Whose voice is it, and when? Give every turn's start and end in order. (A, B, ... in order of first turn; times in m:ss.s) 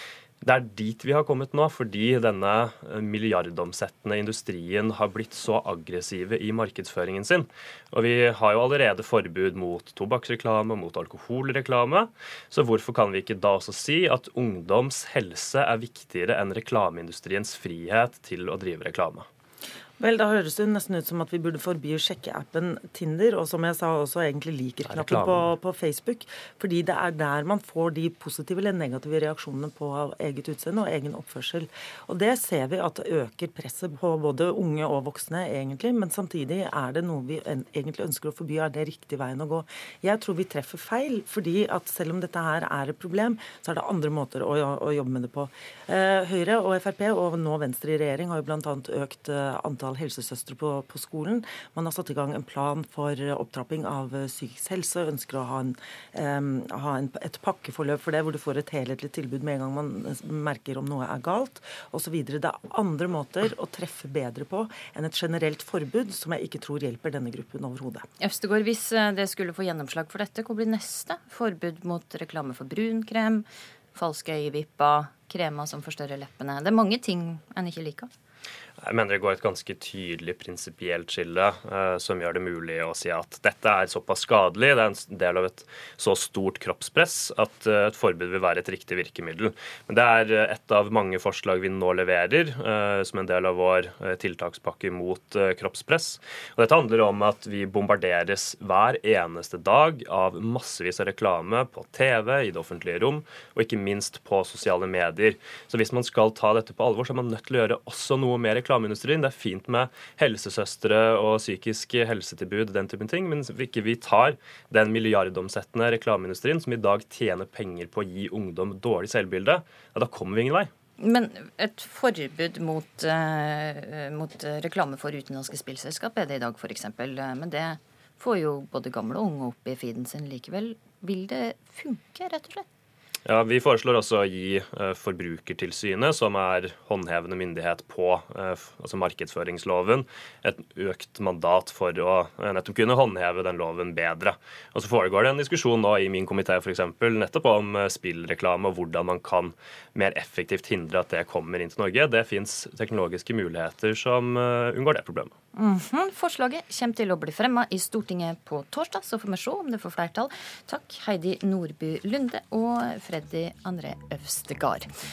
0:00.4-0:19.3 A
0:20.0-1:08.0 B
0:24.8-0:25.5 A
1:08.2-1:18.1 C
1:18.8-2:00.7 A
2:01.0-2:12.6 C
2:13.2-2:35.3 A
2:35.5-2:44.9 C